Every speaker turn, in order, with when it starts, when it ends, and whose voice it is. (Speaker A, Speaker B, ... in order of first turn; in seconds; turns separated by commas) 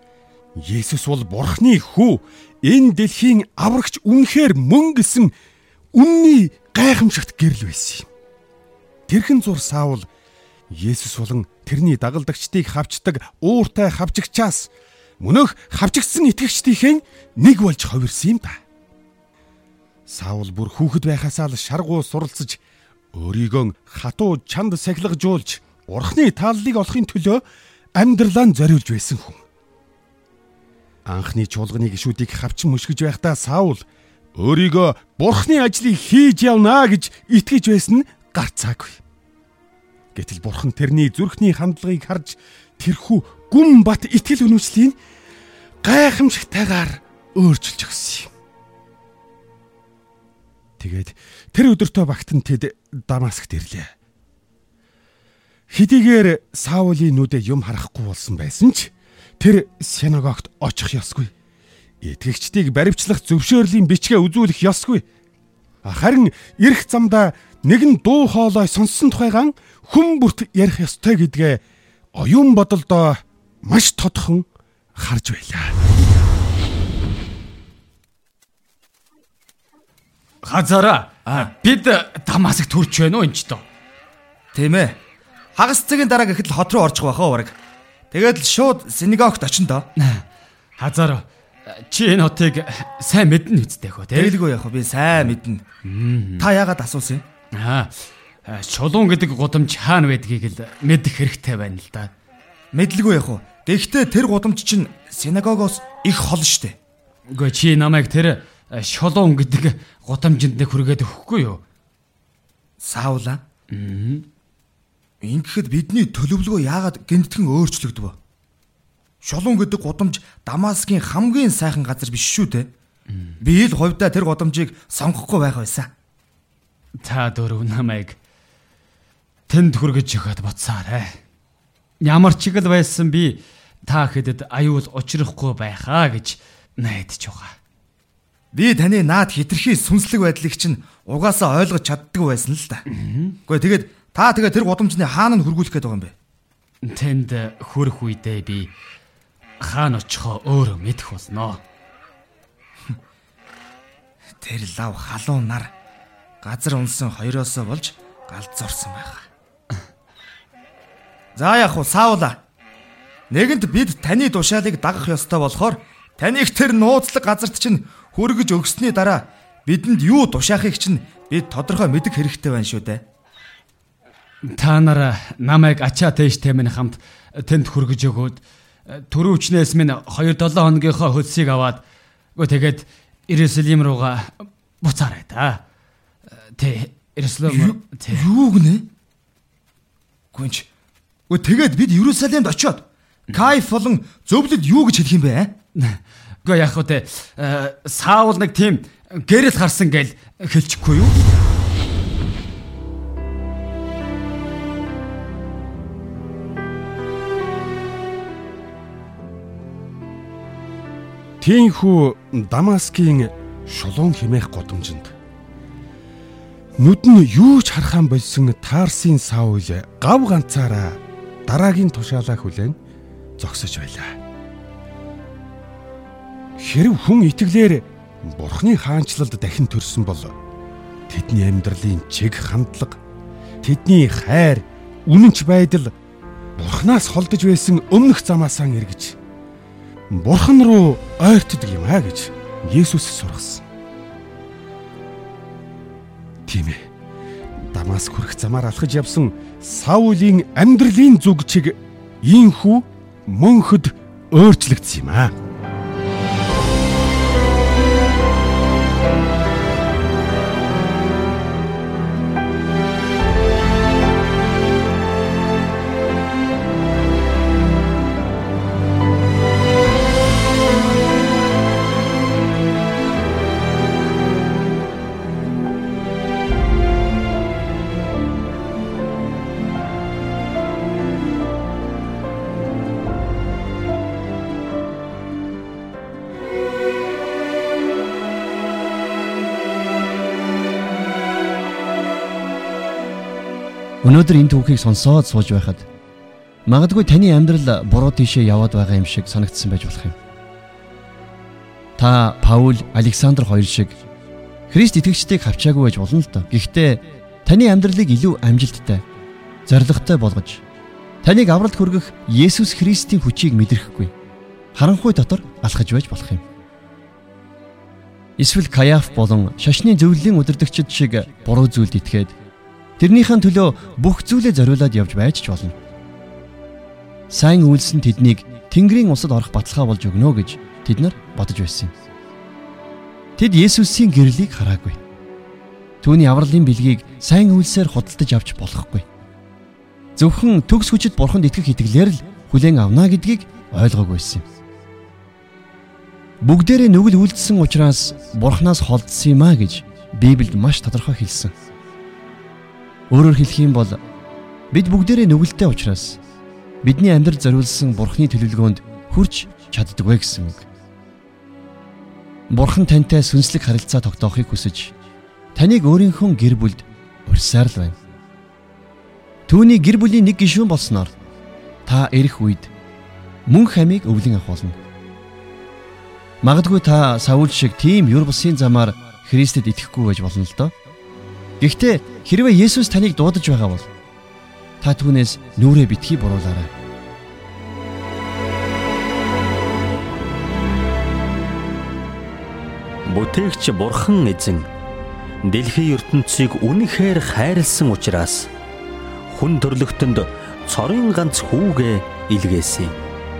Speaker A: 0.6-5.3, Speaker A: 5.9-8.1, Speaker A: 9.1-10.1, Speaker A: 10.7-18.6, Speaker A: 20.1-22.6, Speaker A: 23.1-27.4, Speaker A: 27.9-29.4, Speaker A: 31.1-33.8, Speaker A: 34.4-39.0, Speaker A: 40.1-45.0, Speaker A: 45.8-48.3, Speaker A: 50.8-53.9, Speaker A: 55.7-61.3, Speaker A: 62.0-65.0, Speaker A: 65.8-71.6, Speaker A: 72.1-74.5, Speaker A: 75.0-75.7, Speaker B: 80.4-83.6, Speaker C: 84.5-85.0, Speaker C: 85.5-87.5, Speaker C: 88.1-89.8, Speaker B: 90.0-90.2, Speaker B: 90.8-94.4, Speaker C: 94.1-95.6, Speaker B: 95.8-96.5, Speaker C: 96.4-97.2, Speaker B: 97.5-102.1, Speaker C: 102.7-106.8, Speaker B: 107.3-111.6, Speaker C: 112.8-113.4, Speaker B: 113.7-114.3, Speaker C: 115.2-118.2, Speaker C: 119.2-122.7, Speaker B: 123.1-123.4, Speaker C: 123.4-125.9, Speaker B: 127.0-128.2, Speaker B: 129.5-131.2, Speaker B: 132.0-137.6, Speaker C: 138.5-142.8, Speaker B: 142.9-143.4, Speaker C: 143.5-146.1, Speaker B: 146.8-148.7, Speaker B: 149.6-151.6, Speaker C: 154.4-155.7, Speaker C: 156.4-159.2, Speaker C: 161.3-162.4, Speaker C: 163.3-173.0, Speaker B: 174.4-181.8, Speaker B: 182.3-185.6, Speaker B: 186.3-188.3, Speaker C: 187.5-188.8, Speaker C: 190.3-190.7, Speaker C: 191.3-195.5, Speaker B: 195.7-201.2, Speaker A: 211.4-215.1, Speaker A: 216.8-222.8, Speaker A: 223.4-224.2, Speaker A: 226.6-230.3, Speaker A: 231.1-233.0, Speaker A: 233.6-235.9, Speaker A: 236.6-239.2, Speaker A: 240.1-243.6, Speaker A: 246.5-246.9, Speaker A: 247.7-255.3, Speaker D: 294.0-295.8, Speaker D: 296.7-300.1, Speaker D: 302.0-303.9, Speaker D: 304.7-309.0, Speaker D: 309.7-310.6, Speaker D: 311.2-314.1, Speaker D: 314.7-316.4, Speaker D: 318.4-322.3, Speaker D: 323.0-325.7, Speaker D: 327.3-331.9, Speaker D: 333.4-335.0, Speaker D: 336.0-339.0, Speaker D: 340.2-344.4, Speaker D: 346.4-351.5, Speaker D: 353.1-354.0, Speaker D: 354.7-356.2, Speaker D: 356.8-360.6, Speaker D: 362.5-364.9, Speaker D: 365.5-367.9, Speaker D: 369.5-371.1, Speaker D: 371.9-372.7, Speaker D: 373.5-374.8, Speaker D: 376.4-380.7, Speaker D: 381.6-383.9, Speaker D: 384.8-386.7, Speaker E: 393.0-394.7, Speaker E: 395.4-398.5, Speaker E: 399.3-403.0